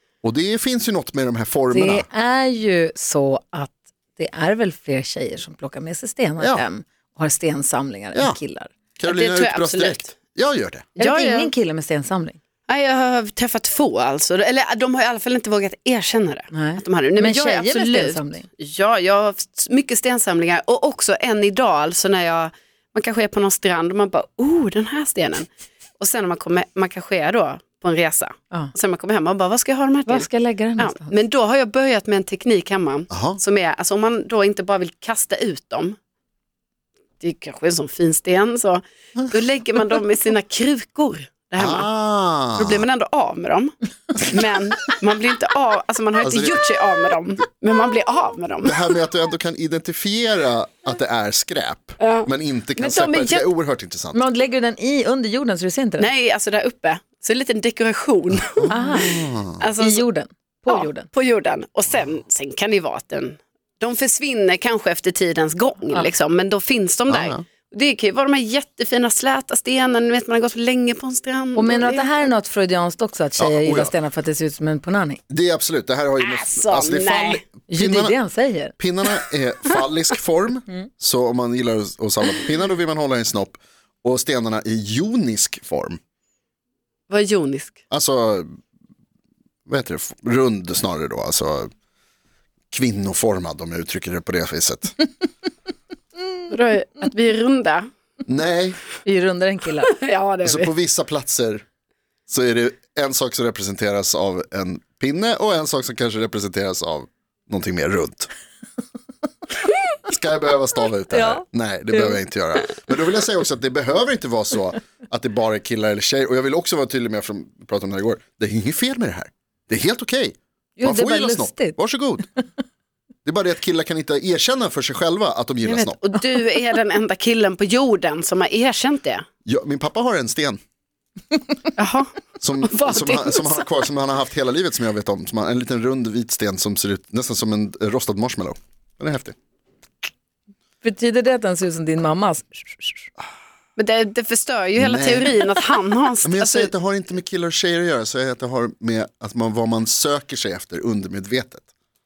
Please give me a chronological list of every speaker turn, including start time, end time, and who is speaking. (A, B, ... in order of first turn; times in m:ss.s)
0:00.2-0:02.0 A
0:01.7-0:08.7 B
0:06.4-0:06.6 A
0:09.0-0:10.9 A
0:09.1-0:10.1 C
0:11.0-0:11.5 C
0:11.0-0:12.4 B
0:12.7-0:25.5 C
0:16.5-0:18.5 B
0:26.0-0:36.0 C
0:30.0-0:31.1 B
0:33.1-0:33.4 A
0:37.2-0:41.9 C
0:41.6-0:42.8 A
0:42.5-0:48.9 C
0:46.2-0:46.6 A
0:48.6-0:54.2 A
0:52.0-0:53.5 C
0:54.1-0:56.1 B
0:56.0-1:00.0 C
0:58.7-0:59.2 B
0:58.9-0:59.6 A
0:59.8-1:01.1 B
1:00.7-1:12.1 C
1:07.1-1:07.4 A
1:11.5-1:15.2 B
1:13.4-1:13.9 A
1:15.3-1:18.2 A
1:16.2-1:17.4 C
1:17.7-1:18.7 B
1:18.8-1:26.0 A
1:27.1-1:27.8 C
1:27.9-1:28.5 A
1:29.7-1:31.7 A
1:32.7-1:34.9 A
1:36.5-1:37.9 C
1:38.2-1:38.8 A
1:39.0-1:39.9 B
1:39.9-1:40.7 C
1:40.4-1:41.6 A
1:42.3-1:48.3 A
1:50.0-2:02.3 A
1:51.1-1:51.4 B
2:00.8-2:01.8 B
2:03.2-2:06.0 A
2:05.6-2:09.2 C
2:09.4-2:10.6 A
2:11.8-2:12.1 C
2:12.4-2:19.3 A
2:12.6-2:13.7 C
2:20.8-2:23.1 B
2:23.8-2:26.7 C
2:24.8-2:25.3 A
2:26.2-2:31.6 A